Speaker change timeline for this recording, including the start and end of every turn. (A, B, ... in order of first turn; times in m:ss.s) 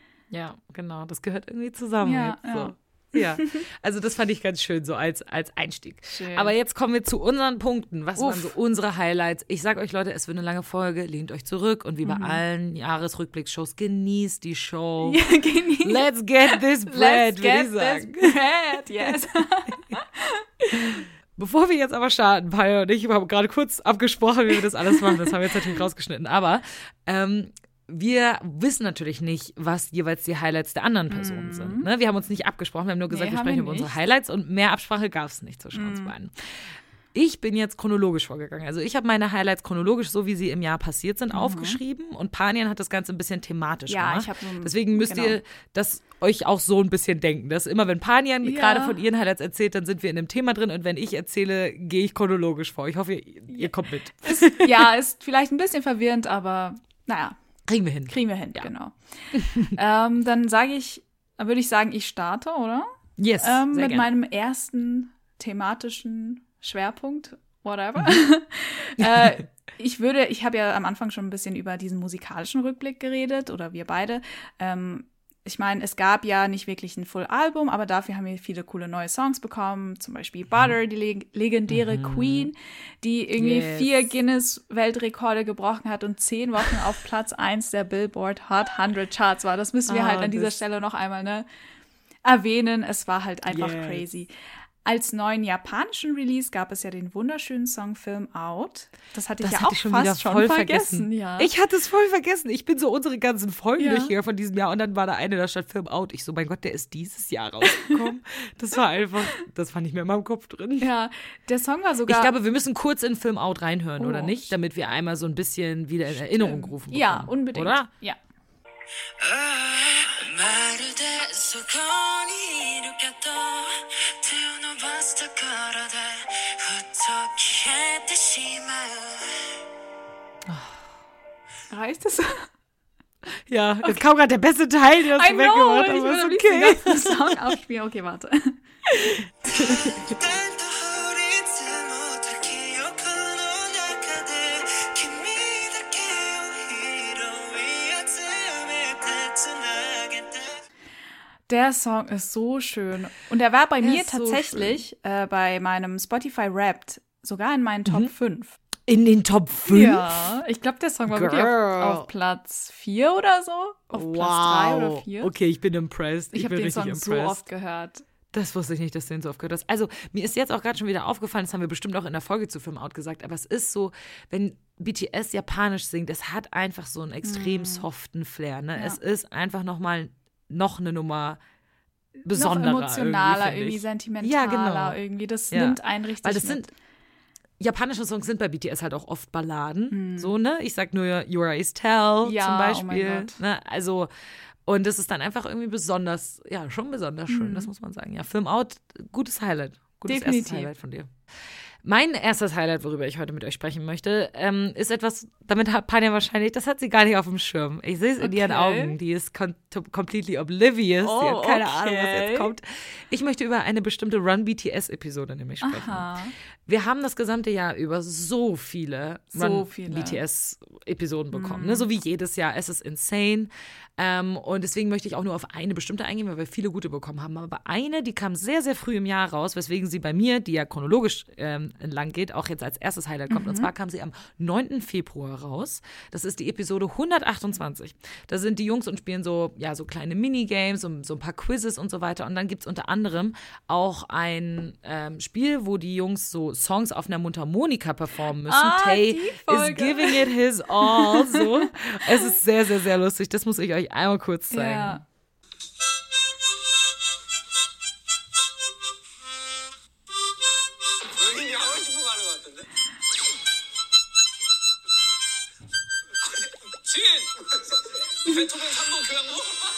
0:00.3-0:15.2 A
0:02.0-0:03.6 B
0:06.1-0:06.5 B
0:08.2-0:08.5 B
0:12.0-0:12.4 B
0:15.0-0:21.0 B
0:15.8-0:18.4 A
0:20.7-0:54.9 A
0:24.9-0:25.5 B
0:31.1-0:31.9 B
0:33.1-0:33.9 B
0:35.7-0:36.1 B
0:41.3-0:41.8 B
0:43.9-0:45.4 B
0:48.4-0:49.0 B
0:53.5-0:57.4 B
0:57.7-0:58.7 A
0:58.0-1:31.4 B
0:59.3-0:59.7 A
1:03.2-1:04.1 A
1:09.0-1:09.4 A
1:21.7-1:22.5 A
1:23.4-1:24.1 A
1:29.9-1:30.6 A
1:32.2-1:34.3 B
1:33.5-1:34.0 A
1:34.8-1:41.5 B
1:39.4-1:50.9 A
1:43.8-1:44.1 B
1:50.8-1:52.3 B
1:52.1-1:57.9 A
1:54.0-1:54.5 B
1:56.1-1:58.2 B
1:59.2-2:09.4 C
2:10.5-2:10.8 A
2:11.7-2:12.5 B
2:13.5-2:17.4 A
2:15.2-2:18.6 B
2:18.9-2:20.2 A
2:20.0-2:30.6 C
2:31.5-2:38.6 B
2:33.8-2:34.8 A
2:37.8-2:38.1 A
2:38.9-2:40.1 A
2:39.7-2:45.3 B
2:41.1-2:42.1 A
2:43.9-2:47.4 A
2:46.3-2:48.0 B
2:48.3-3:01.4 A
2:57.2-2:57.8 B
3:02.3-3:05.0 A
3:02.3-3:06.6 B
3:05.5-3:06.7 A
3:07.6-3:14.1 A
3:09.9-3:10.3 B
3:12.2-3:13.4 B
3:14.6-3:21.1 A
3:17.3-3:17.7 B
3:20.0-3:20.7 B
3:21.8-4:15.0 A
3:28.2-3:28.9 B
3:31.0-3:32.5 B
3:35.6-3:36.3 B
3:39.3-3:40.2 B
3:41.3-3:41.9 B
3:53.3-3:53.7 B
4:08.5-4:10.3 B
4:10.8-4:11.6 B
4:14.5-4:15.0 B
4:21.3-4:22.3 C